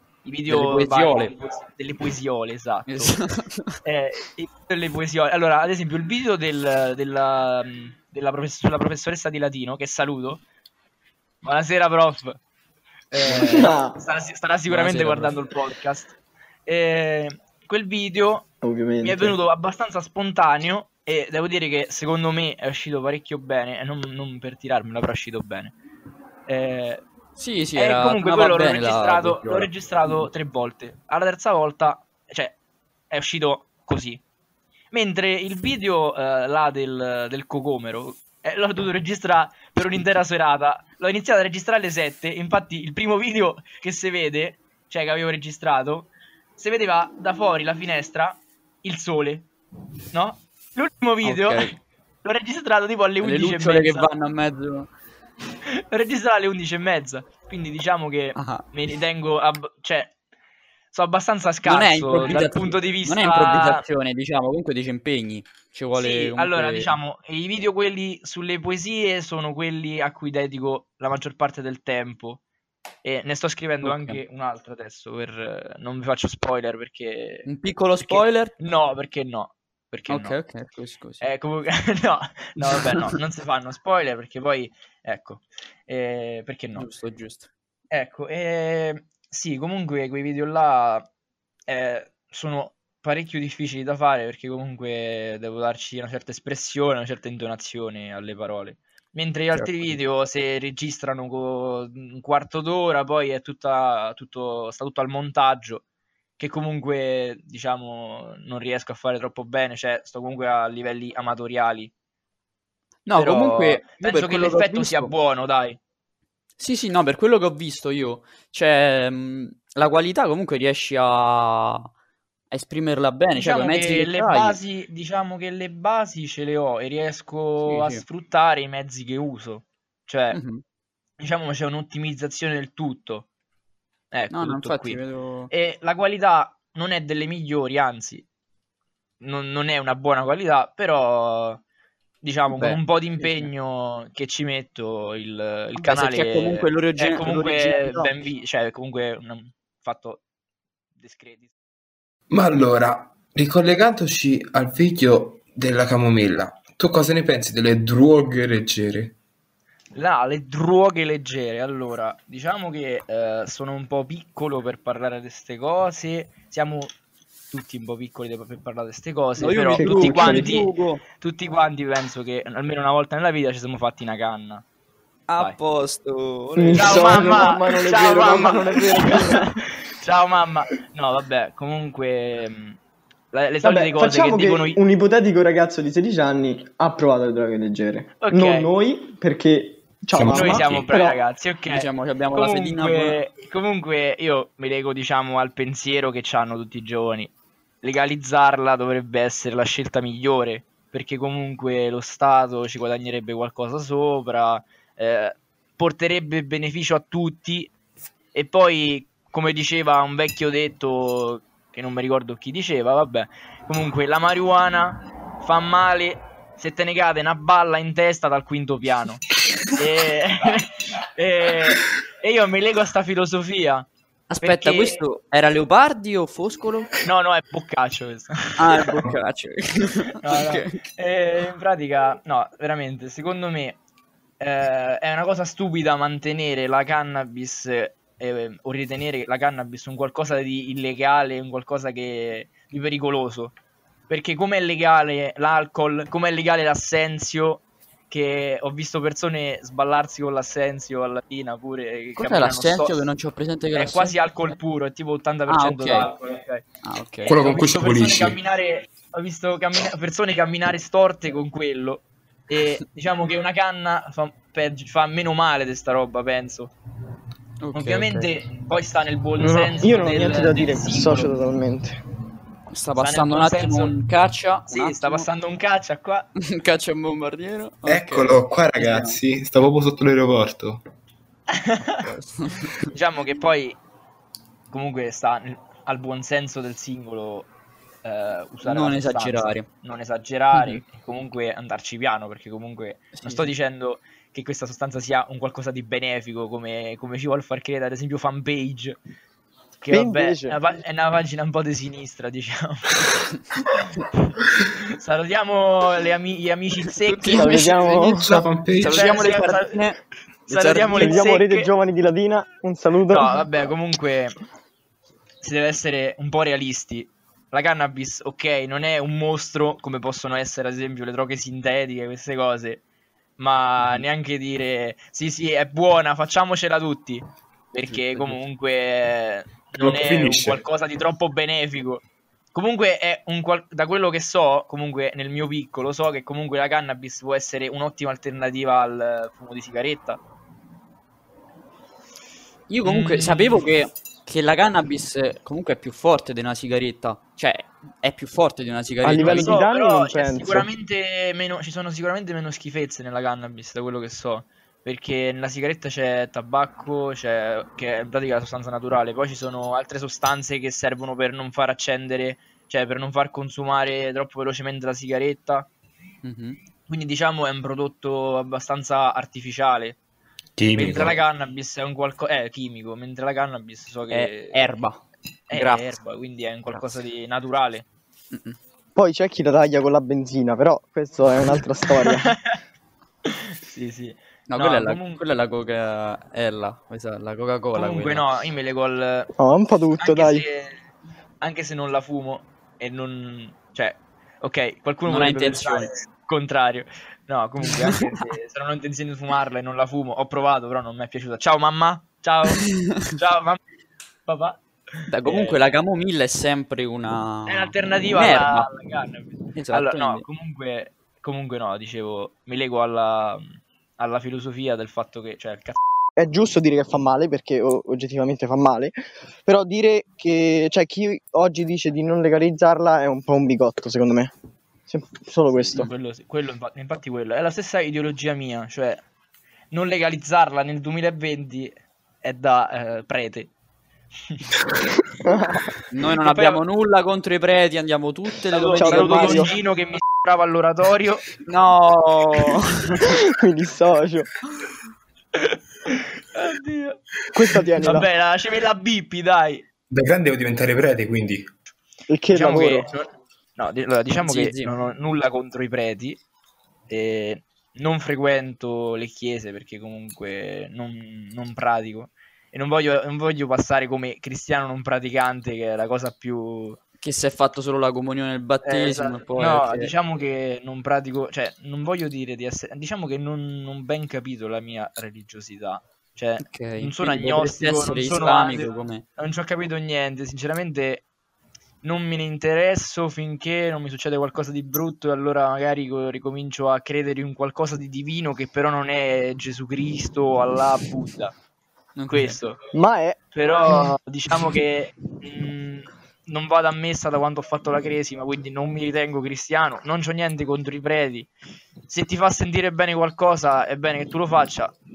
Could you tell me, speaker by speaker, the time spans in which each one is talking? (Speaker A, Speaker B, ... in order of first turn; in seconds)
Speaker A: 0.2-3.2, 3.9-10.4, 11.4-12.4, 13.1-16.1, 16.7-18.5, 19.0-25.8, 26.5-27.0, 27.8-32.6, 33.1-34.2, 34.9-49.5, 50.1-51.7, 52.2-54.1, 55.7-60.1, 60.9-63.8, 65.9-72.4, 73.0-77.5, 78.0-80.4, 81.2-86.9, 87.9-91.1, 91.7-105.8, 106.4-111.9, 113.2-115.8, 123.3-130.4, 131.2-133.3, 134.1-135.0, 135.5-138.3, 139.2-141.6, 142.2-150.2, 151.0-151.5, 159.9-166.9, 167.5-174.7, 176.7-182.8, 183.3-184.8, 188.2-188.7, 190.3-207.7, 208.3-219.2, 219.8-223.9, 224.4-225.0, 227.0-229.0, 230.2-233.8, 234.4-243.5, 244.1-253.0, 253.7-256.6, 257.3-266.7, 267.7-271.3, 272.9-274.0, 274.7-276.3, 281.6-282.0, 282.9-283.8, 284.7-287.5, 288.0-299.0, 299.8-303.0, 304.0-308.2, 308.8-309.7, 310.5-311.7, 313.1-314.4, 315.4-322.8, 323.4-340.2, 342.8-343.6, 349.1-365.7, 366.9-370.0, 370.7-374.6, 375.5-377.9, 382.1-382.6, 383.3-385.2, 387.7-389.3, 390.0-390.8, 391.4-403.6, 404.3-405.6, 407.5-415.8, 425.7-429.0, 429.7-431.7, 432.2-433.5, 434.2-434.5, 436.2-436.6, 438.5-441.3, 445.4-447.0, 447.8-449.6, 452.3-456.2, 456.9-466.8, 468.6-481.1, 481.8-491.4, 492.1-492.6, 493.3-501.3, 501.9-504.8
Speaker B: 0.5-1.3, 2.9-3.8, 14.7-15.3, 27.4-30.3, 51.2-51.7, 53.2-54.9, 58.4-58.6, 61.6-66.9, 73.8-74.2, 77.5-78.5, 80.1-81.2, 86.8-87.5, 99.5-100.0, 113.1-115.1, 116.6-121.9, 122.5-124.6, 127.7-128.0, 130.3-130.6, 134.3-135.5, 142.5-143.5, 145.8-148.1, 169.4-171.0, 175.3-177.5, 191.7-193.2, 224.3-226.9, 228.6-230.8, 252.2-254.2, 255.5-256.1, 256.8-257.3, 267.6-268.3, 272.7-275.3, 276.5-279.2, 282.0-282.9, 288.6-289.7, 290.5-290.8, 293.1-293.5, 307.1-308.0, 308.8-311.2, 323.8-324.1, 327.9-328.4, 342.7-349.6, 366.2-366.6, 374.1-375.0, 375.5-375.9, 378.3-378.6, 384.5-388.3, 395.1-396.0, 405.1-408.7, 409.6-410.2, 435.9-439.5, 441.5-443.1, 454.2-454.7, 467.0-469.9, 476.4-479.0, 492.0-492.4
Speaker C: 13.3-14.0, 18.6-19.4, 169.7-170.5, 176.6-179.5, 183.6-191.2, 269.4-272.0, 299.9-300.6, 307.3-308.5, 310.9-313.5, 349.0-350.7, 379.0-382.4, 389.4-390.5, 416.2-418.9, 419.5-424.3, 424.9-425.9, 435.2-435.7, 438.8-439.5, 443.1-444.3, 447.3-448.1, 452.1-452.9, 492.7-493.2
Speaker D: 152.3-159.2, 190.1-190.9, 257.3-258.4, 277.9-280.8, 308.2-309.0, 329.8-330.6, 370.6-371.2, 449.9-451.4